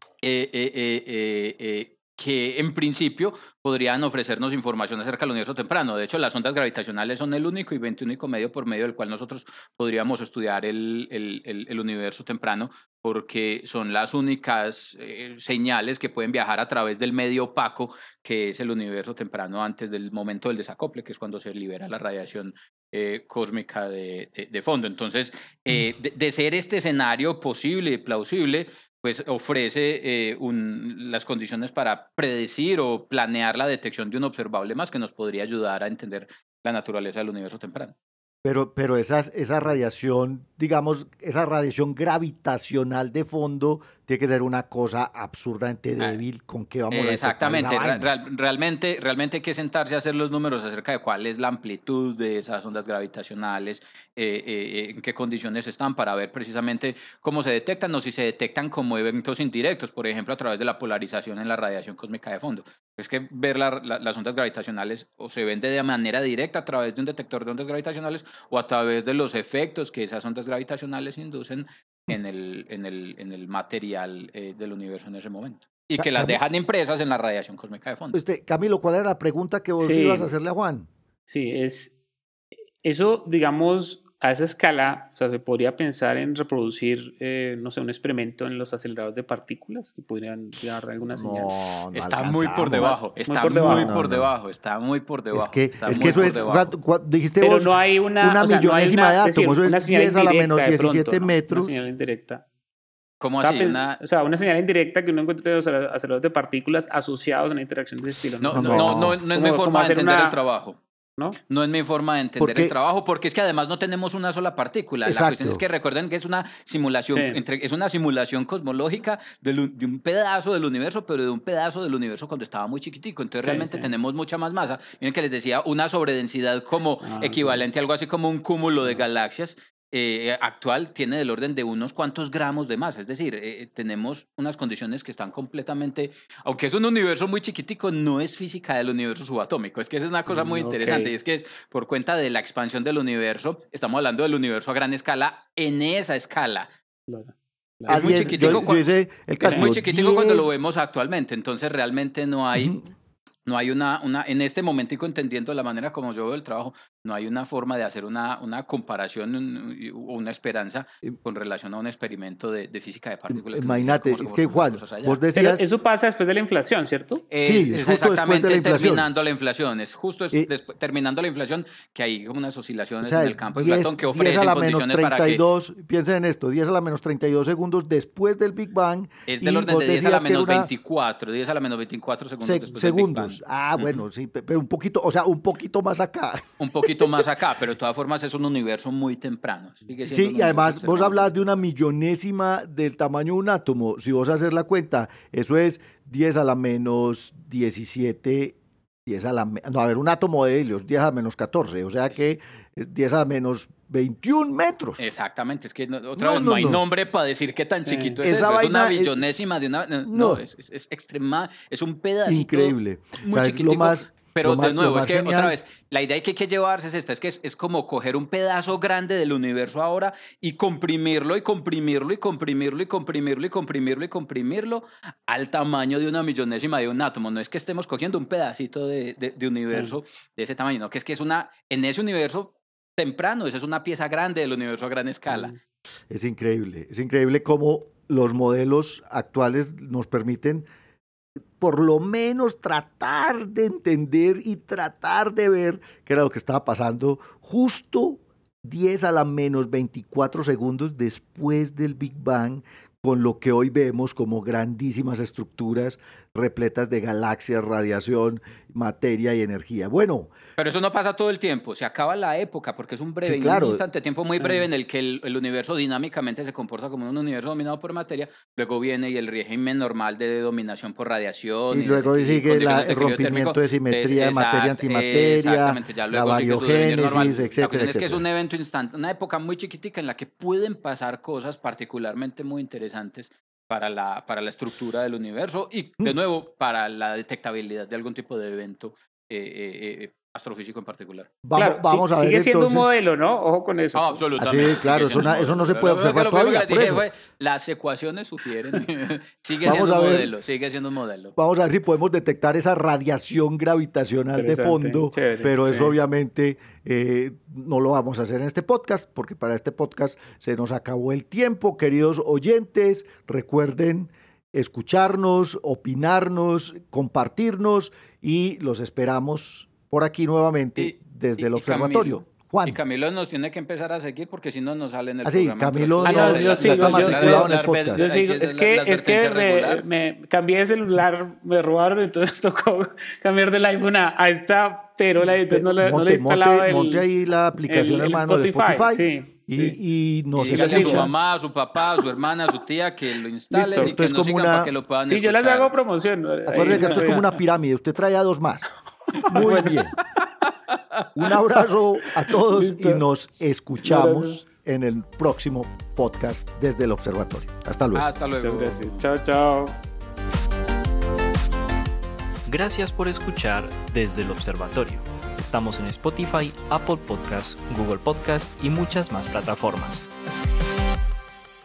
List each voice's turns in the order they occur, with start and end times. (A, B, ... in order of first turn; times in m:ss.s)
0:00.2-0:37.9 A
0:38.4-0:48.1 B
0:46.9-1:18.2 A
1:16.0-1:16.4 B
1:18.1-1:20.9 B
1:19.8-1:20.3 C
1:21.3-1:22.0 C
1:22.8-1:31.6 C
1:31.1-1:34.3 B
1:32.0-1:36.7 A
1:32.7-1:34.0 C
1:35.3-1:41.7 B
1:35.9-1:36.5 C
1:37.4-1:42.4 C
1:43.2-1:44.0 A
1:43.4-1:50.4 C
1:48.4-1:50.8 A
1:48.5-1:49.2 B
1:51.5-2:26.7 A
1:52.4-1:52.7 B
1:55.0-1:55.6 B
1:57.1-1:57.4 C
2:03.4-2:03.9 C
2:07.0-2:07.6 C
2:20.3-2:21.1 C
2:27.1-2:28.7 C
2:27.9-2:28.8 A
2:27.9-2:30.5 B
2:29.4-2:29.8 C
2:29.4-2:32.8 A
2:32.5-2:32.8 B
2:33.4-2:45.2 A
2:43.3-2:45.6 B
2:45.3-2:47.2 C
2:47.3-2:55.4 A
2:47.4-2:49.1 B
2:53.0-3:00.7 B
2:59.3-3:03.4 A
3:02.4-3:07.2 B
3:06.6-3:11.3 A
3:10.0-3:25.0 B
3:25.0-3:55.6 A
3:26.2-3:26.8 B
3:27.8-3:28.2 C
3:28.2-3:29.2 B
3:30.0-3:30.4 B
3:32.2-3:35.6 B
3:55.3-3:55.6 C
3:56.1-4:00.7 B
4:01.6-4:20.3 B
4:20.6-4:51.4 A
4:23.2-4:23.8 B
4:24.4-4:24.6 C
4:31.7-4:38.2 B
4:51.4-4:52.9 B
4:51.6-4:54.4 C
4:53.9-5:01.3 A
4:54.4-4:57.0 B
4:59.6-5:00.3 B
5:01.4-5:22.8 B
5:04.4-5:06.0 C
5:20.8-5:29.8 A
5:25.2-5:28.1 B
5:26.0-5:37.0 C
5:35.5-5:41.1 B
5:37.7-5:39.8 C
5:40.4-5:45.7 A
5:40.5-5:41.1 C
5:41.8-5:42.1 C
5:43.5-5:44.7 B
5:45.1-5:47.4 C
5:46.5-5:48.7 B
5:46.6-5:47.1 A
5:49.1-5:49.8 C
5:49.3-5:49.9 B
5:51.1-5:58.0 B
5:52.3-5:53.0 C
5:53.8-5:54.4 C
5:57.9-5:59.0 A
5:58.4-5:59.8 C
6:02.5-6:10.1 D